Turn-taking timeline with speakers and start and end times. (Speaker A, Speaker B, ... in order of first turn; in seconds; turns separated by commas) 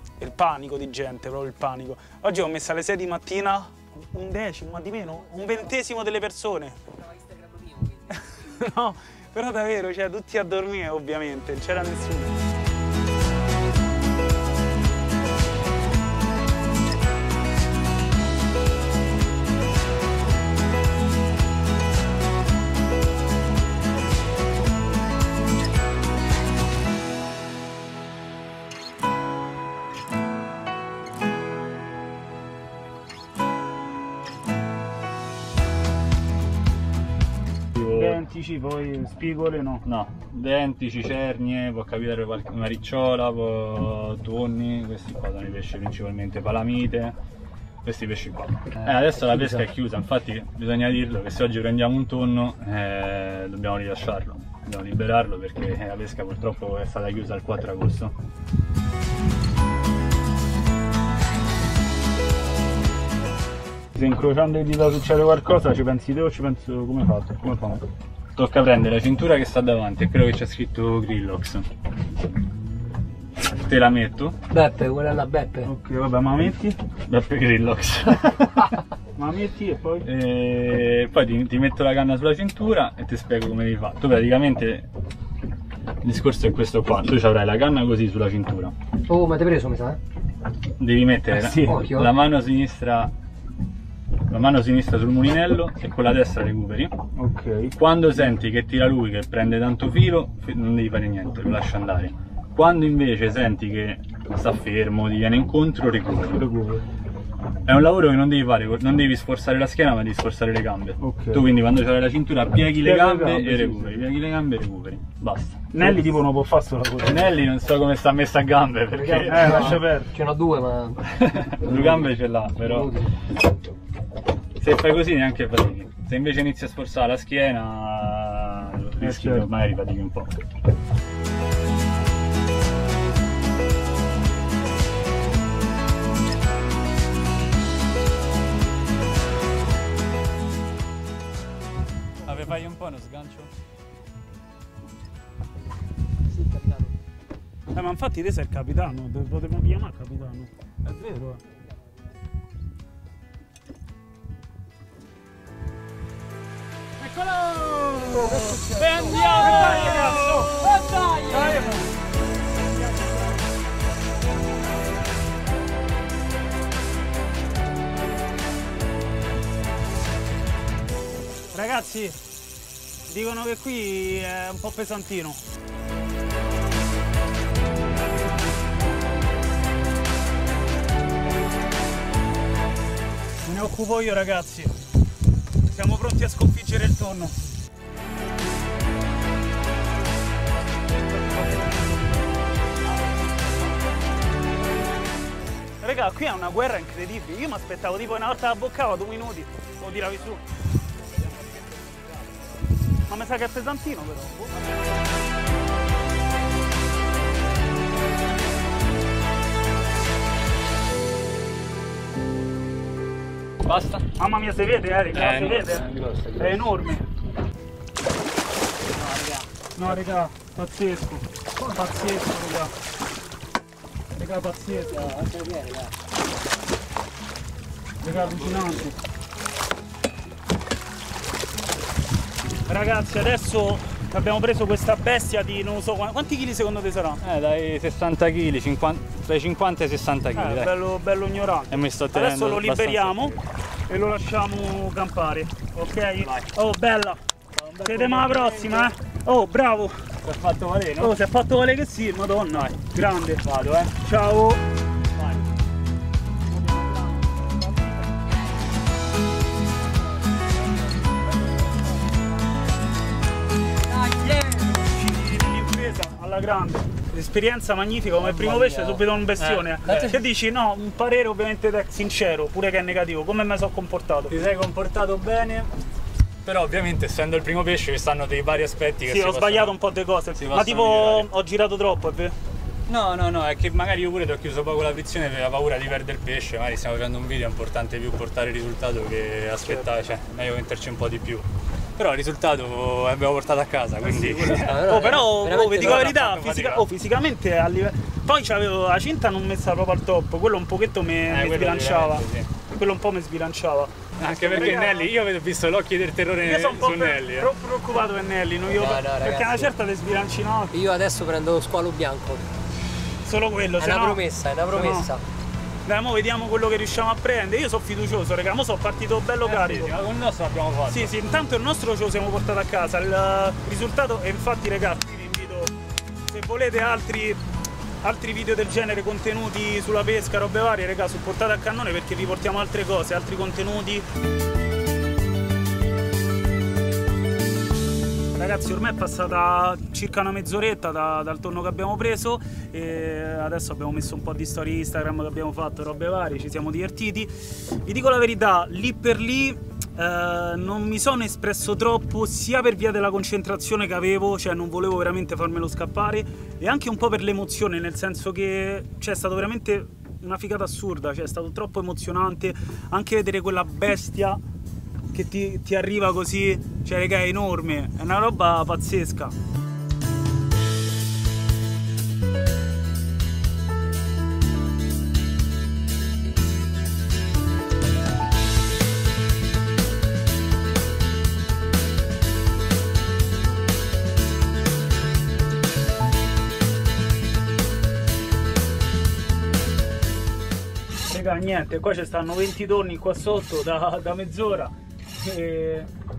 Speaker A: 0.2-6.8, Speaker B: 5.2-5.8, Speaker B: 6.9-8.2, Speaker A: 8.3-12.3, Speaker C: 37.7-38.2, Speaker A: 37.8-39.8, Speaker C: 39.8-47.1, Speaker C: 47.8-58.1, Speaker A: 63.9-67.8, Speaker C: 68.3-71.7, Speaker C: 73.5-74.4, Speaker B: 74.5-75.7, Speaker A: 75.7-76.8, Speaker C: 77.0-78.8, Speaker A: 79.2-80.0, Speaker C: 80.0-84.9, Speaker C: 86.0-88.7, Speaker B: 89.1-90.0, Speaker C: 90.8-93.1, Speaker A: 91.4-91.8, Speaker B: 91.5-92.1, Speaker C: 94.3-96.9, Speaker A: 97.2-97.7, Speaker C: 97.7-106.4, Speaker A: 106.3-106.8, Speaker C: 107.6-116.1, Speaker A: 111.0-111.5, Speaker A: 112.8-113.8, Speaker A: 115.7-117.2, Speaker C: 117.0-119.8, Speaker B: 118.9-121.0, Speaker A: 119.1-120.1, Speaker C: 121.1-122.9, Speaker B: 121.6-123.1, Speaker C: 124.6-130.4, Speaker A: 129.0-129.5, Speaker C: 142.2-143.5, Speaker B: 146.3-146.9, Speaker A: 147.7-151.4, Speaker A: 157.0-158.4, Speaker B: 158.1-161.8, Speaker C: 158.7-159.8, Speaker A: 159.1-160.6, Speaker A: 161.3-161.9, Speaker A: 171.5-172.2, Speaker A: 173.1-175.4, Speaker A: 183.4-184.7, Speaker A: 185.6-187.4, Speaker C: 192.8-193.9, Speaker A: 195.8-200.4, Speaker C: 201.0-202.6, Speaker A: 203.1-204.5, Speaker C: 213.6-214.1, Speaker A: 214.2-215.8, Speaker C: 215.1-216.7, Speaker A: 216.4-217.0, Speaker B: 219.2-219.4, Speaker A: 219.8-222.7, Speaker A: 224.2-225.1, Speaker B: 224.7-225.9, Speaker A: 228.0-229.0, Speaker A: 232.7-237.2, Speaker C: 237.2-240.7, Speaker A: 240.3-243.3, Speaker C: 241.7-243.4, Speaker A: 243.9-247.2, Speaker C: 246.2-246.5, Speaker C: 247.5-248.9, Speaker A: 247.8-249.9, Speaker C: 250.2-251.2, Speaker A: 251.0-253.4, Speaker C: 252.5-252.8, Speaker C: 253.4-254.0, Speaker A: 254.0-254.6, Speaker C: 255.2-255.4, Speaker A: 256.6-257.0, Speaker B: 263.8-264.8, Speaker A: 264.7-274.4, Speaker B: 268.2-269.0, Speaker C: 269.4-270.2, Speaker C: 274.3-275.7, Speaker C: 276.4-279.8, Speaker A: 279.1-282.3, Speaker C: 280.3-281.3, Speaker C: 282.9-295.1, Speaker A: 294.0-305.1, Speaker B: 294.5-296.2, Speaker C: 295.7-296.9, Speaker C: 301.3-302.5, Speaker C: 304.2-307.5, Speaker A: 306.4-310.8, Speaker B: 308.7-309.7, Speaker B: 310.7-312.4, Speaker A: 313.2-315.1, Speaker B: 313.8-315.2, Speaker A: 315.9-319.9, Speaker C: 319.4-321.1, Speaker A: 320.9-325.7, Speaker A: 326.3-327.4, Speaker A: 328.0-334.1, Speaker A: 338.4-364.4, Speaker A: 365.1-369.3, Speaker A: 391.1-395.9